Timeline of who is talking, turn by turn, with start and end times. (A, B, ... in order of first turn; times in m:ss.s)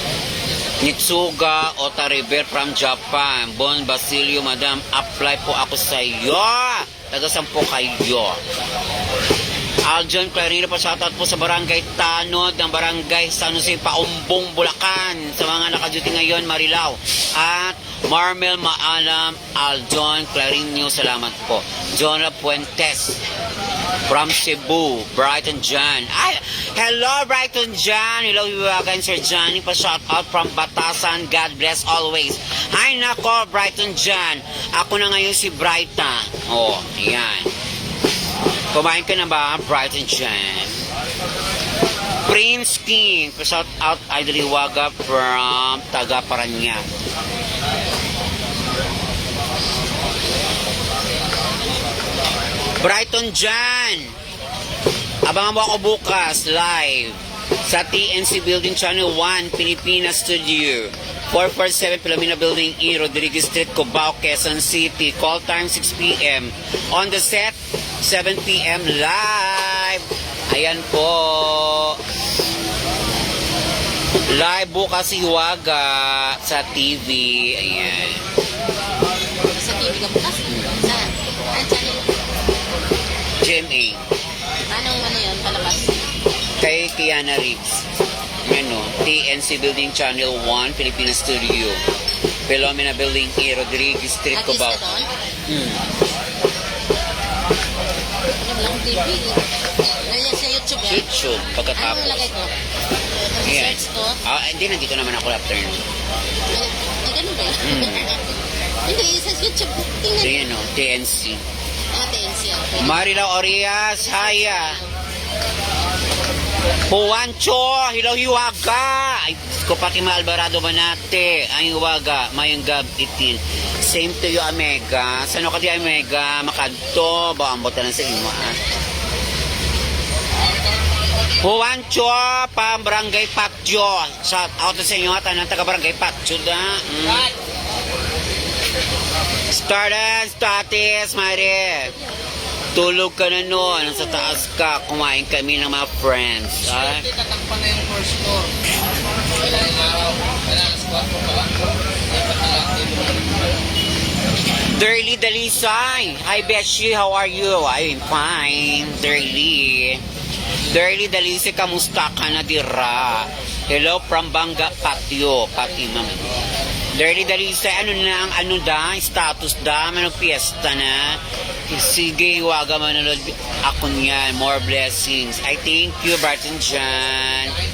0:00.8-0:08.4 A
0:09.8-0:23.2 A
0:24.0-0:37.5 A
0:38.7-0:40.8 A
0:42.2-0:46.8 A
0:52.8-0:54.2 A
0:55.2-1:12.0 A
1:14.3-1:18.2 A
1:19.5-1:22.1 B
1:20.5-1:20.8 A
1:23.4-1:24.0 A
1:24.7-1:26.0 B
1:26.6-1:27.9 A
1:28.4-1:31.8 A
1:32.5-1:34.8 A
1:34.3-1:35.1 B
1:35.5-1:35.8 A
1:38.4-1:39.4 B
1:40.0-1:41.1 B
1:40.8-1:42.3 A
1:41.8-1:42.5 B
1:43.3-1:44.2 B
1:43.4-1:45.8 A
1:46.5-1:50.5 B
1:47.6-1:48.1 A
1:50.2-1:51.4 A
1:51.9-1:53.1 B
1:52.8-1:54.8 A
1:54.1-1:54.9 B
1:56.9-2:08.6 A
2:11.4-2:17.3 A
2:19.5-2:22.0 A
2:22.8-2:27.1 A
2:27.1-2:28.6 C
2:29.4-2:33.4 C
2:34.7-2:40.0 A
2:40.7-2:46.3 A
2:46.9-2:57.6 A